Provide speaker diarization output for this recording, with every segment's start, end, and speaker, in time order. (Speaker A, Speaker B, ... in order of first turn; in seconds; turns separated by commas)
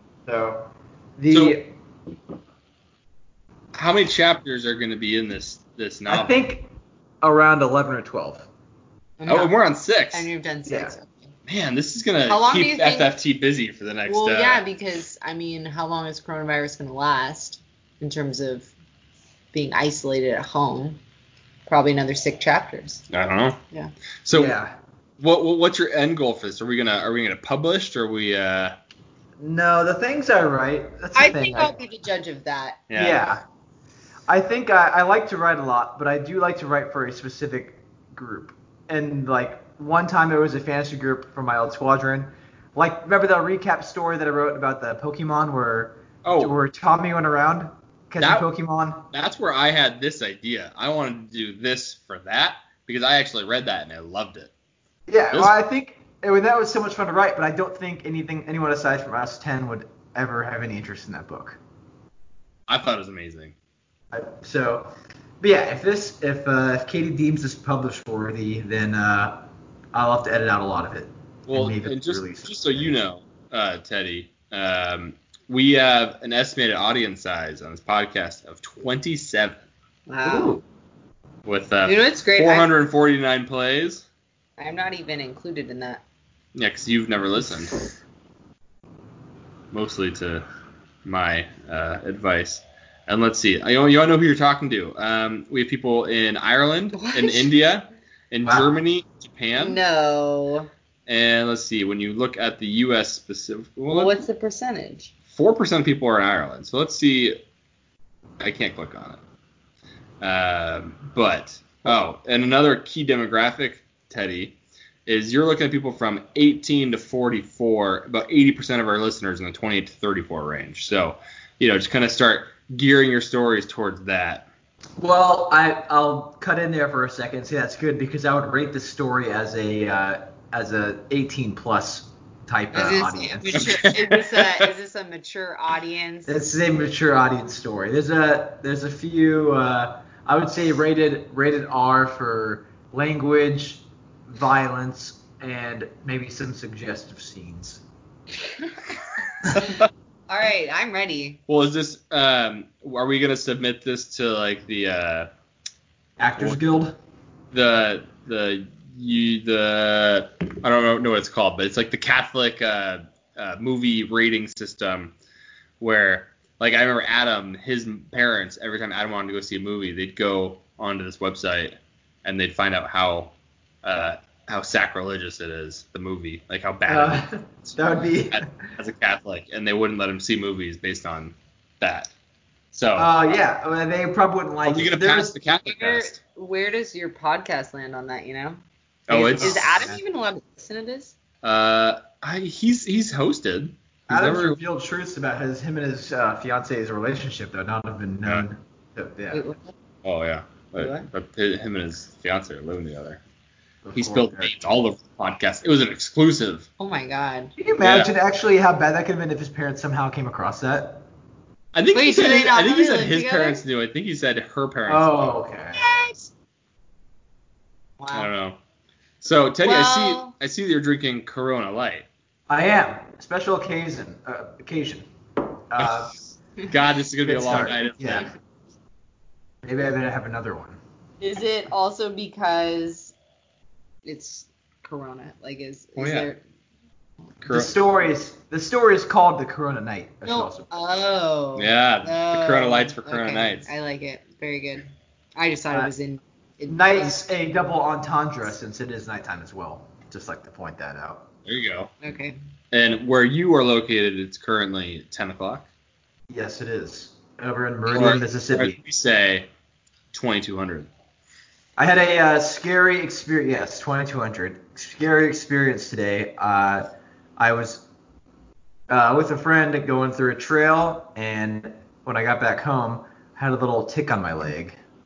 Speaker A: 0.3-1.7, Speaker B: 1.3-1.6, Speaker B: 3.7-6.3, Speaker A: 6.1-6.7, Speaker A: 7.2-8.5, Speaker C: 9.2-9.6, Speaker B: 9.3-10.3, Speaker C: 10.1-11.3, Speaker A: 10.7-10.9, Speaker B: 11.5-14.6, Speaker C: 12.3-13.1, Speaker C: 14.1-18.7, Speaker C: 19.5-21.0, Speaker C: 21.7-23.1, Speaker B: 23.1-23.6, Speaker B: 24.2-24.6, Speaker A: 24.3-24.7, Speaker B: 25.2-28.8, Speaker A: 29.4-31.8, Speaker C: 31.1-32.9, Speaker B: 32.9-33.3, Speaker A: 32.9-33.4, Speaker A: 34.3-49.0, Speaker B: 46.2-46.5, Speaker B: 48.2-48.5, Speaker B: 49.1-54.5, Speaker A: 55.1-61.6, Speaker B: 62.7-63.5, Speaker A: 64.1-72.9, Speaker B: 71.5-79.6, Speaker C: 80.1-80.6, Speaker A: 80.2-80.6, Speaker B: 81.5-84.0, Speaker C: 81.8-82.7, Speaker C: 84.6-86.0, Speaker B: 86.5-87.7, Speaker B: 89.7-90.5, Speaker B: 91.0-99.8, Speaker C: 97.0-97.5, Speaker A: 98.5-98.7, Speaker C: 99.6-100.7, Speaker B: 101.1-104.2, Speaker C: 103.9-105.1, Speaker B: 105.3-107.4, Speaker B: 108.4-109.2, Speaker B: 110.2-124.5, Speaker A: 125.0-133.8, Speaker C: 132.7-136.4, Speaker B: 133.5-134.7, Speaker A: 136.3-147.8, Speaker B: 149.5-149.9, Speaker C: 150.3-151.4, Speaker B: 151.5-155.3, Speaker A: 156.2-157.0, Speaker B: 157.5-165.1, Speaker B: 165.8-182.1, Speaker A: 176.9-178.5, Speaker B: 182.7-183.4, Speaker A: 183.0-185.4, Speaker B: 184.7-186.2, Speaker C: 185.6-191.1, Speaker B: 189.1-189.9, Speaker A: 189.4-190.0, Speaker B: 191.4-194.6, Speaker A: 194.1-199.5, Speaker C: 199.3-199.7, Speaker B: 200.0-203.2, Speaker C: 200.8-201.1, Speaker A: 203.8-204.5, Speaker B: 203.9-206.7, Speaker C: 206.8-207.5, Speaker A: 207.6-211.1, Speaker B: 207.8-208.1, Speaker B: 211.7-215.4, Speaker C: 211.9-213.6, Speaker A: 214.9-215.8, Speaker C: 215.8-216.3, Speaker C: 218.0-218.3, Speaker B: 218.1-218.6, Speaker B: 219.2-222.1, Speaker C: 219.6-220.3, Speaker A: 222.5-225.1, Speaker A: 225.6-226.1, Speaker B: 225.8-226.1, Speaker B: 226.7-228.3, Speaker A: 227.3-228.3, Speaker A: 229.6-230.8, Speaker C: 231.2-233.1, Speaker C: 234.1-236.4, Speaker B: 236.0-236.3, Speaker B: 237.4-237.7, Speaker A: 237.5-240.7, Speaker C: 240.2-247.2, Speaker B: 241.6-243.7, Speaker A: 246.7-251.3, Speaker B: 251.5-251.9, Speaker C: 252.0-252.4, Speaker B: 252.7-255.7, Speaker A: 256.3-258.8, Speaker B: 257.9-259.5, Speaker B: 260.1-260.9, Speaker A: 261.8-267.9, Speaker A: 268.9-274.8